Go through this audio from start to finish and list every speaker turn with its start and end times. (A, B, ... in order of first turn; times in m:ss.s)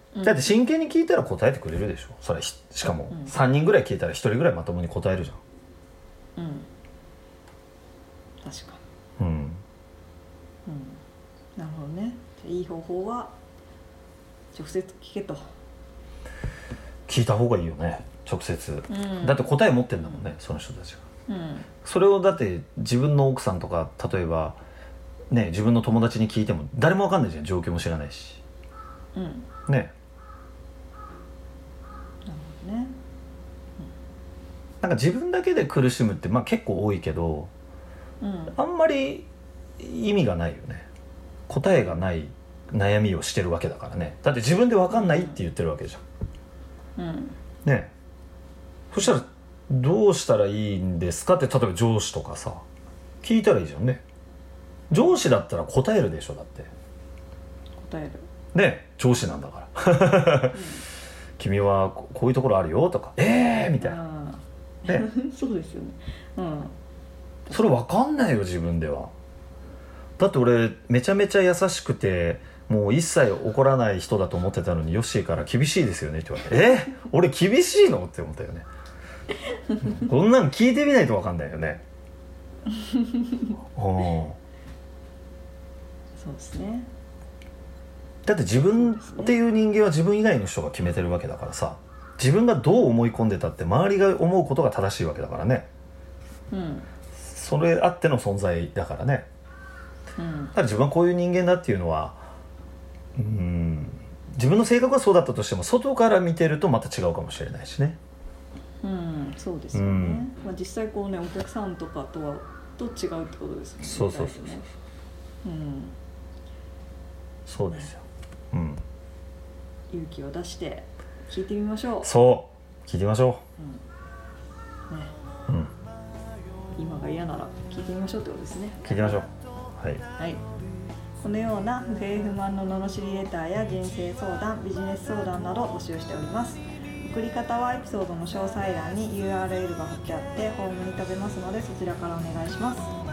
0:00.1-0:00.5 A
0:00.2-0:05.4 B
0:03.1-0:03.3 A
0:06.4-0:06.7 A
0:08.4-0:08.8 A
0:09.2-0:09.6 B
0:10.6-0:11.0 A
0:11.6-0:13.3 A
0:14.5-0:15.4 A
0:17.1-0:21.0 B
0:18.9-0:20.3 A
0:21.3-0:21.7 A
0:21.8-0:24.6 B
0:25.3-0:28.4 B
0:29.1-0:29.5 A
0:29.7-0:29.9 B
0:32.3-0:33.0 A
0:34.8-0:37.5 B
0:38.2-0:38.5 A
0:38.5-0:39.3 B
0:39.8-0:40.8 B
0:41.5-0:46.0 B
0:41.7-0:42.0 A
0:44.9-0:45.4 A
0:47.0-0:47.4 A
0:47.6-0:47.9 B
0:48.9-0:52.6 B
0:53.2-0:54.0 B
0:54.9-0:56.7 B
0:57.8-0:58.2 A
0:58.5-1:00.6 B
1:00.5-1:00.9 A
1:01.4-1:04.0 B
1:03.8-1:06.7 A
1:07.5-1:07.8 A
1:07.5-1:09.1 B
1:10.2-1:18.6 B
1:19.8-1:21.8 B
1:22.7-1:23.5 A
1:23.7-1:24.4 B
1:26.2-1:26.9 A
1:28.2-1:35.7 B
1:28.7-1:29.3 A
1:36.5-1:36.9 A
1:37.2-1:39.3 B
1:40.2-1:40.5 A
1:40.5-1:42.2 B
1:43.2-1:48.0 B
1:48.8-1:54.6 A
1:49.7-1:50.2 B
1:53.8-1:54.5 B
1:55.4-1:56.0 A
1:57.4-1:58.8 B
1:59.9-2:02.1 A
2:02.0-2:03.4 B
2:03.6-2:03.8 A
2:04.9-2:05.1 A
2:06.8-2:09.2 A
2:08.8-2:10.0 B
2:10.2-2:10.4 A
2:11.2-2:22.9 A